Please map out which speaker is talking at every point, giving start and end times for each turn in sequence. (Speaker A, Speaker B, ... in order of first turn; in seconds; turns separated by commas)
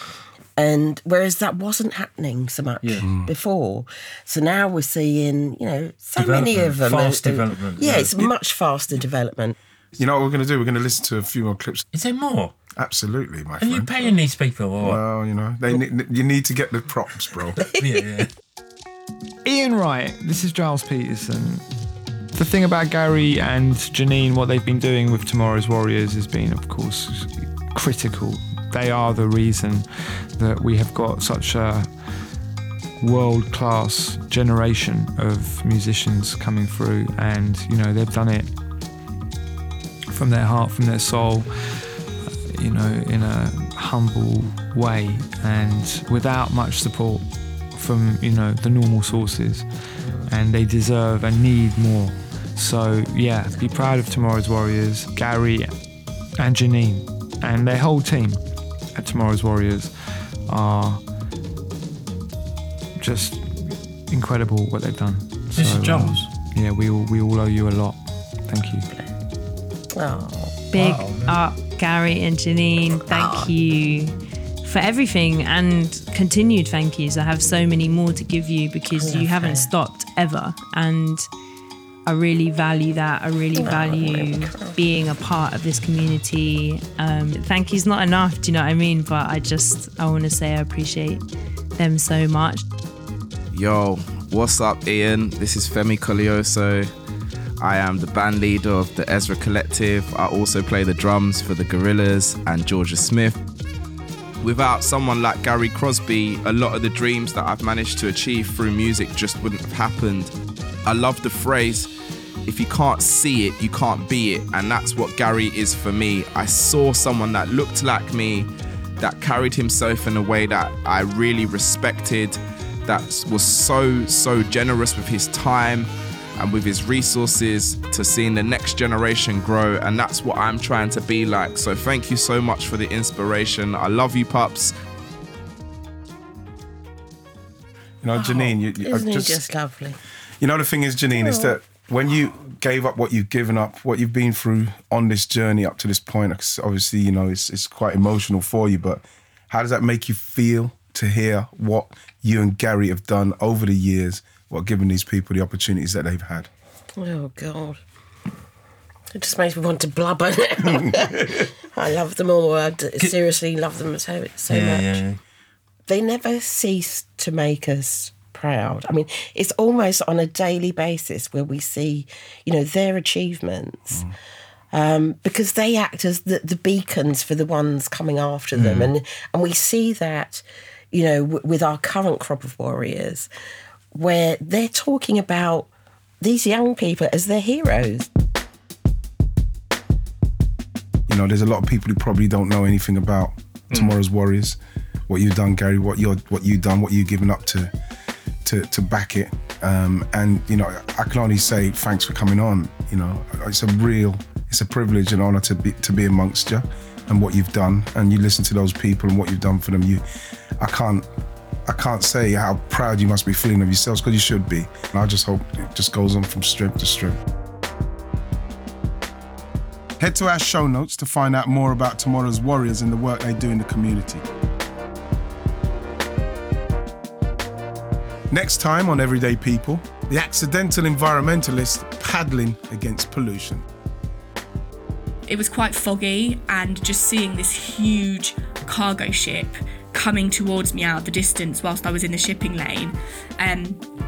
Speaker A: 0.6-9.6, Speaker B: 2.8-3.1, Speaker C: 3.0-3.3, Speaker B: 6.2-8.3, Speaker C: 10.0-11.9, Speaker B: 11.9-12.6, Speaker C: 12.8-14.0, Speaker B: 13.6-15.0, Speaker C: 14.8-17.6, Speaker B: 17.6-18.3, Speaker D: 19.4-21.7, Speaker D: 22.3-32.0, Speaker D: 33.0-38.6, Speaker D: 40.1-61.1, Speaker A: 50.0-50.3, Speaker D: 63.0-68.9, Speaker B: 65.5-66.3, Speaker A: 69.9-70.6, Speaker E: 70.7-81.3, Speaker B: 70.7-71.4, Speaker A: 73.1-73.5, Speaker A: 78.9-79.7, Speaker E: 82.1-91.2, Speaker A: 83.6-84.8, Speaker E: 91.8-92.6, Speaker F: 93.5-96.8, Speaker F: 97.6-103.4, Speaker F: 104.4-110.3, Speaker F: 110.9-111.9, Speaker F: 112.5-118.5, Speaker F: 119.0-134.7, Speaker C: 138.0-139.4, Speaker A: 138.1-140.0, Speaker C: 140.4-156.5, Speaker A: 141.1-141.6, Speaker A: 157.0-157.8, Speaker A: 159.1-165.0, Speaker B: 164.5-165.2, Speaker A: 165.9-174.0, Speaker A: 174.7-183.3, Speaker B: 178.5-178.9, Speaker A: 183.9-185.7, Speaker A: 186.2-188.1, Speaker C: 191.1-197.7, Speaker C: 198.4-210.0, Speaker C: 210.6-211.1, Speaker C: 211.7-217.2, Speaker C: 220.0-224.2, Speaker C: 228.3-233.7, Speaker G: 235.3-243.8